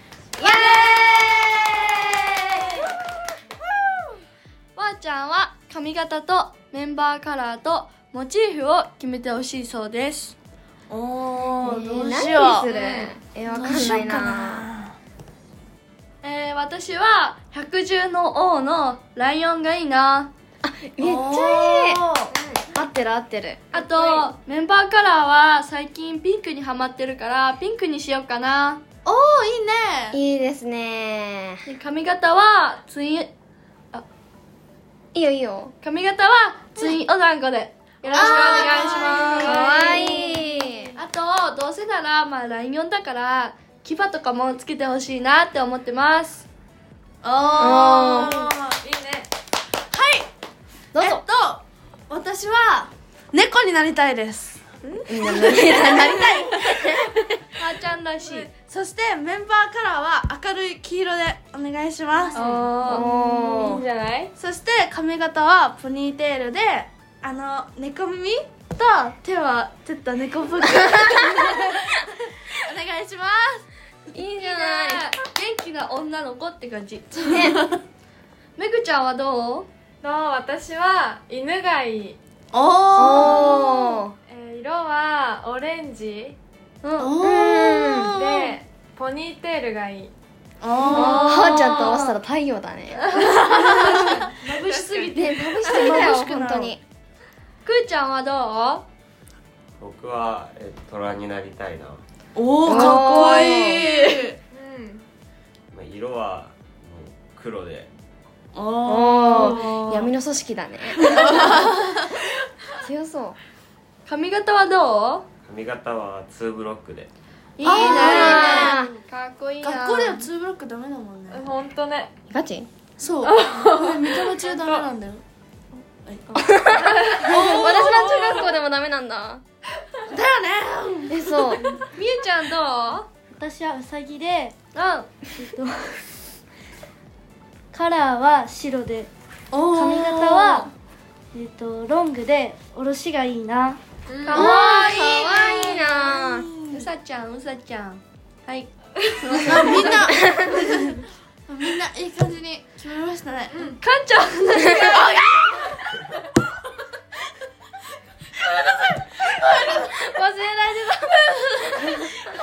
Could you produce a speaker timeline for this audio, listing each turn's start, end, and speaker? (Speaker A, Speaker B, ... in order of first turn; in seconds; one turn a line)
Speaker A: 0.4-2.9
Speaker B: 4.8-10.3
Speaker C: 10.9-12.7
Speaker A: 11.6-14.6
Speaker D: 12.7-13.1
Speaker C: 13.5-14.9
Speaker B: 16.2-20.3
Speaker A: 20.6-22.0
Speaker C: 21.0-22.3
Speaker D: 22.3-22.6
Speaker A: 22.7-23.8
Speaker B: 23.7-28.8
Speaker C: 29.0-30.2
Speaker A: 30.1-31.6
Speaker B: 31.6-33.3
Speaker A: 35.1-35.7
Speaker B: 35.8-40.3
Speaker C: 38.1-40.4
Speaker A: 38.1-40.9
Speaker B: 41.0-46.5
Speaker C: 47.2-48.8
Speaker A: 47.6-48.5
Speaker D: 48.0-49.3
Speaker C: 49.9-50.3
Speaker A: 50.9-51.2
Speaker C: 51.0-57.3
Speaker A: 55.0-57.2
Speaker B: 57.6-58.5
Speaker C: 58.4-62.5
Speaker D: 62.3-64.3
Speaker A: 62.4-63.8
Speaker C: 64.3-73.7
Speaker A: 74.1-75.1
Speaker B: 74.4-77.5
Speaker A: 77.3-77.6
Speaker B: 78.6-79.7
Speaker D: 80.0-82.2
Speaker C: 82.5-83.4
Speaker A: 82.9-84.1
Speaker D: 84.3-86.3
Speaker A: 86.8-88.2
Speaker C: 87.0-88.5
Speaker D: 88.1-90.1
Speaker C: 90.6-91.5
Speaker B: 90.8-92.1
Speaker A: 90.9-93.0
Speaker B: 93.0-95.9
Speaker C: 93.4-94.1
Speaker D: 93.9-95.1
Speaker A: 95.1-96.8
Speaker C: 95.6-96.7
Speaker B: 97.6-98.8
Speaker E: 99.8-102.0
Speaker C: 102.3-104.4
Speaker A: 102.6-103.8
Speaker D: 103.7-105.0
Speaker E: 105.7-107.9
Speaker C: 108.5-110.1
Speaker A: 108.8-111.8
Speaker C: 110.9-112.0
Speaker A: 112.7-113.4
Speaker B: 114.0-115.2
Speaker E: 115.5-117.1
Speaker B: 117.6-120.3
Speaker C: 117.6-118.9
Speaker A: 117.7-118.9
Speaker C: 119.6-121.5
Speaker D: 121.3-122.1
Speaker A: 122.3-122.7
Speaker C: 123.0-125.2
Speaker D: 123.2-124.8
Speaker C: 125.7-126.4
Speaker A: 126.3-129.4
Speaker D: 126.8-127.3
Speaker C: 127.2-128.5
Speaker C: 130.1-131.6
Speaker A: 131.1-131.7
Speaker B: 131.9-133.1
Speaker F: 133.4-134.5
Speaker B: 134.7-135.1
Speaker F: 135.4-136.0
Speaker F: 137.7-139.1
Speaker C: 139.5-140.7
Speaker F: 139.7-140.7
Speaker F: 141.3-143.8
Speaker D: 144.1-144.5
Speaker B: 144.2-145.8
Speaker A: 144.3-146.5
Speaker C: 146.1-146.8
Speaker B: 146.7-149.9
Speaker C: 149.2-153.7
Speaker A: 150.1-150.5
Speaker D: 153.5-153.8
Speaker B: 153.8-155.1
Speaker C: 154.9-155.6
Speaker C: 159.0-159.9
Speaker B: 160.2-160.9
Speaker C: 160.4-160.9